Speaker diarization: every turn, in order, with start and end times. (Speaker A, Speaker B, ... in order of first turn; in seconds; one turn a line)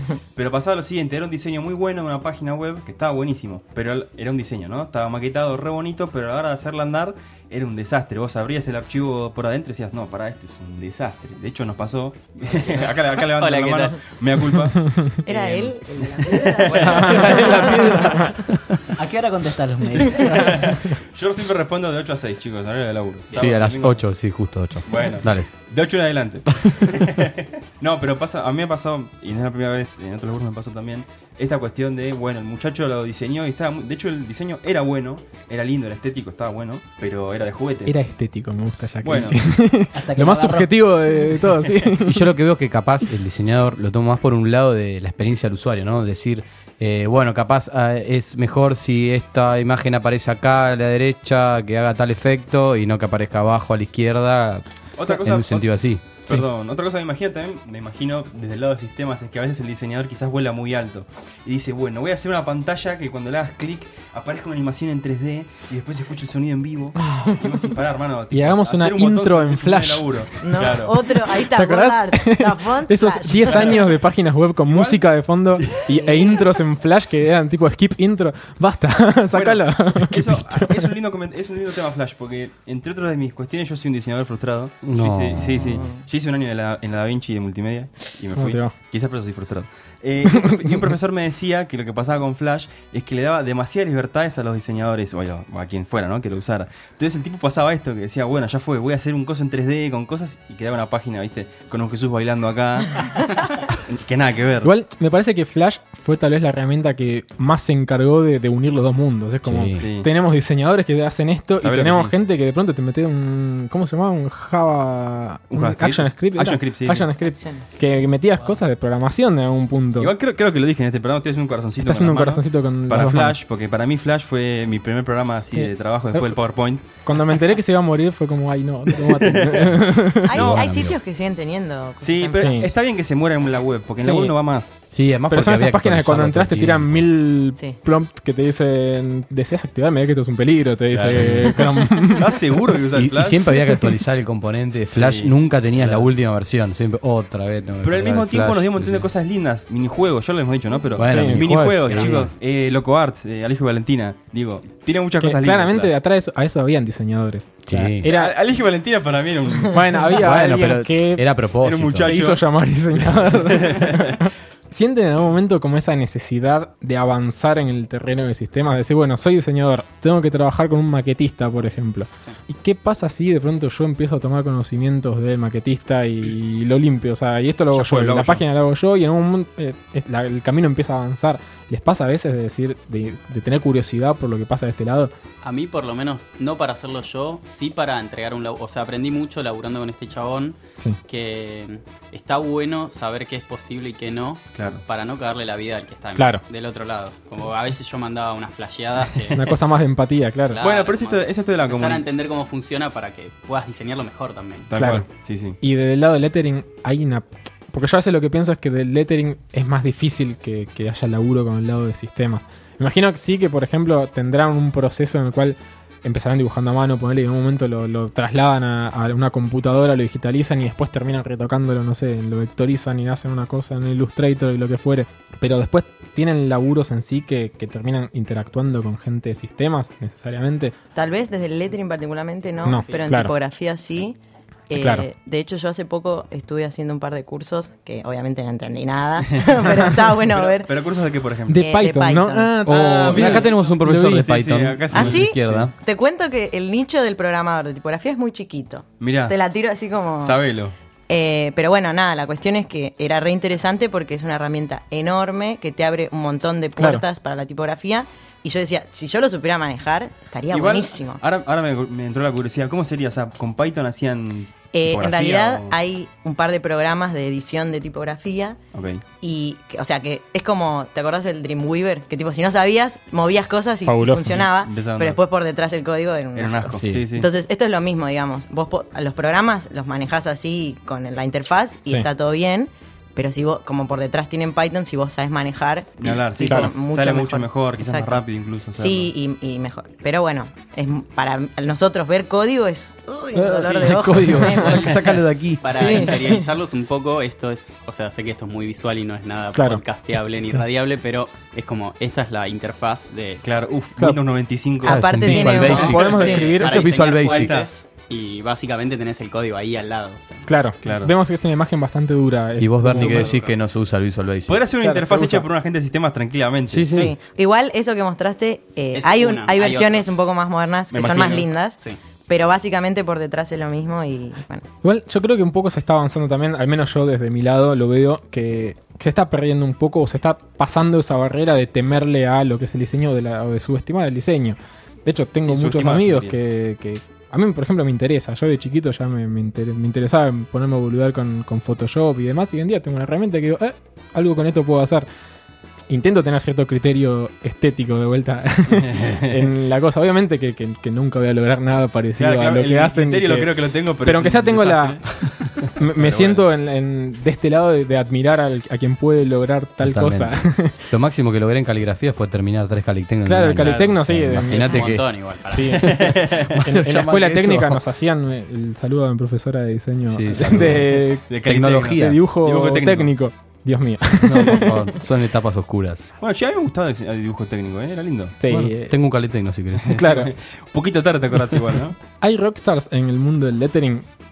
Speaker A: 0.3-15.6
Speaker B: 12.8-14.1
Speaker C: 15.2-18.3
Speaker A: 16.3-17.1
Speaker B: 16.7-17.2
Speaker D: 16.9-18.6
Speaker E: 17.1-18.3
Speaker F: 18.9-20.4
Speaker A: 20.3-24.3
Speaker D: 23.3-25.5
Speaker A: 24.9-38.0
Speaker D: 26.7-26.9
Speaker E: 37.9-42.3
Speaker A: 39.0-39.4
Speaker F: 39.9-40.8
Speaker D: 42.1-56.1
Speaker A: 55.0-71.0
Speaker E: 67.1-67.4
Speaker E: 68.3-70.1
Speaker C: 70.4-73.8
Speaker E: 71.3-80.9
Speaker A: 73.5-73.8
Speaker A: 74.6-75.0
Speaker C: 75.9-76.5
Speaker A: 79.3-103.1
Speaker D: 84.8-85.7
Speaker E: 88.3-88.7
Speaker E: 90.3-90.9
Speaker A: 103.9-104.7
Speaker E: 104.6-120.1
Speaker D: 109.4-109.9
Speaker A: 109.8-110.1
Speaker A: 111.6-112.1
Speaker A: 115.5-117.1
Speaker C: 117.4-117.6
Speaker A: 120.0-127.0
Speaker E: 121.8-123.4
Speaker E: 125.5-130.3
Speaker A: 129.0-130.7
Speaker C: 130.2-132.6
Speaker D: 130.3-131.0
Speaker A: 132.0-134.8
Speaker E: 132.4-132.7
Speaker E: 134.0-134.3
Speaker D: 134.9-137.1
Speaker E: 135.3-142.4
Speaker A: 140.9-143.8
Speaker D: 141.0-141.6
Speaker D: 143.0-149.1
Speaker A: 144.9-146.1
Speaker A: 147.8-155.9
Speaker D: 151.0-152.3
Speaker E: 151.0-152.3
Speaker E: 155.2-158.3
Speaker D: 157.7-158.1
Speaker A: 158.0-160.1
Speaker E: 159.7-161.4
Speaker D: 160.2-162.1
Speaker A: 161.6-164.2
Speaker E: 162.0-185.1
Speaker A: 177.7-178.4
Speaker B: 185.4-190.6
Speaker B: 191.1-199.6
Speaker A: 194.6-194.8
Speaker E: 196.1-196.4
Speaker E: 199.3-200.6
Speaker B: 200.5-204.7
Speaker A: 200.6-202.1
Speaker A: 204.7-205.6
Speaker E: 204.8-205.1
Speaker E: 205.6-230.7
Speaker C: 230.9-234.2
Speaker E: 232.6-233.3
Speaker B: 232.7-233.3
Speaker C: 234.7-240.7
Speaker E: 234.7-235.1
Speaker A: 239.3-239.6
Speaker A: 240.2-241.6
Speaker E: 241.5-244.3
Speaker C: 241.6-242.7
Speaker D: 242.7-245.7
Speaker A: 242.8-245.7
Speaker C: 244.9-250.4
Speaker A: 249.0-249.4
Speaker A: 250.2-250.7
Speaker C: 251.1-261.2
Speaker E: 256.8-257.1
Speaker A: 260.5-265.7
Speaker C: 264.7-268.6
Speaker A: 268.7-269.0
Speaker C: 269.2-288.2
Speaker E: 273.9-274.5
Speaker A: 274.6-275.2
Speaker A: 276.4-277.3
Speaker D: 276.8-277.1
Speaker A: 286.0-289.1
Speaker C: 288.8-296.4
Speaker E: 293.4-294.9
Speaker D: 293.4-296.0
Speaker B: 295.6-303.4
Speaker E: 299.5-299.8
Speaker A: 303.4-305.7
Speaker C: 304.9-306.6
Speaker D: 304.9-307.6
Speaker E: 305.3-307.1
Speaker B: 305.4-310.5
Speaker A: 306.9-307.7
Speaker E: 310.5-313.4
Speaker A: 310.8-311.1
Speaker D: 312.6-314.6
Speaker B: 312.9-313.6
Speaker A: 314.5-317.2
Speaker E: 314.8-315.4
Speaker D: 316.7-317.1
Speaker C: 316.9-324.6
Speaker B: 318.9-320.2
Speaker A: 320.9-321.5
Speaker B: 321.0-322.0
Speaker E: 324.8-345.1
Speaker A: 335.4-336.4
Speaker E: 345.9-355.0
Speaker A: 348.9-349.3
Speaker A: 352.2-356.5
Speaker E: 355.8-360.9
Speaker D: 359.8-360.3
Speaker D: 360.9-365.1
Speaker E: 363.2-374.8
Speaker A: 363.6-364.0
Speaker B: 364.5-365.8
Speaker A: 365.8-366.7
Speaker D: 365.9-367.8
Speaker D: 370.1-372.3
Speaker A: 370.4-373.1
Speaker D: 374.2-376.1
Speaker A: 376.2-378.4
Speaker E: 378.4-379.0
Speaker D: 378.5-380.1
Speaker E: 379.9-380.3
Speaker A: 379.9-382.0
Speaker E: 382.2-384.1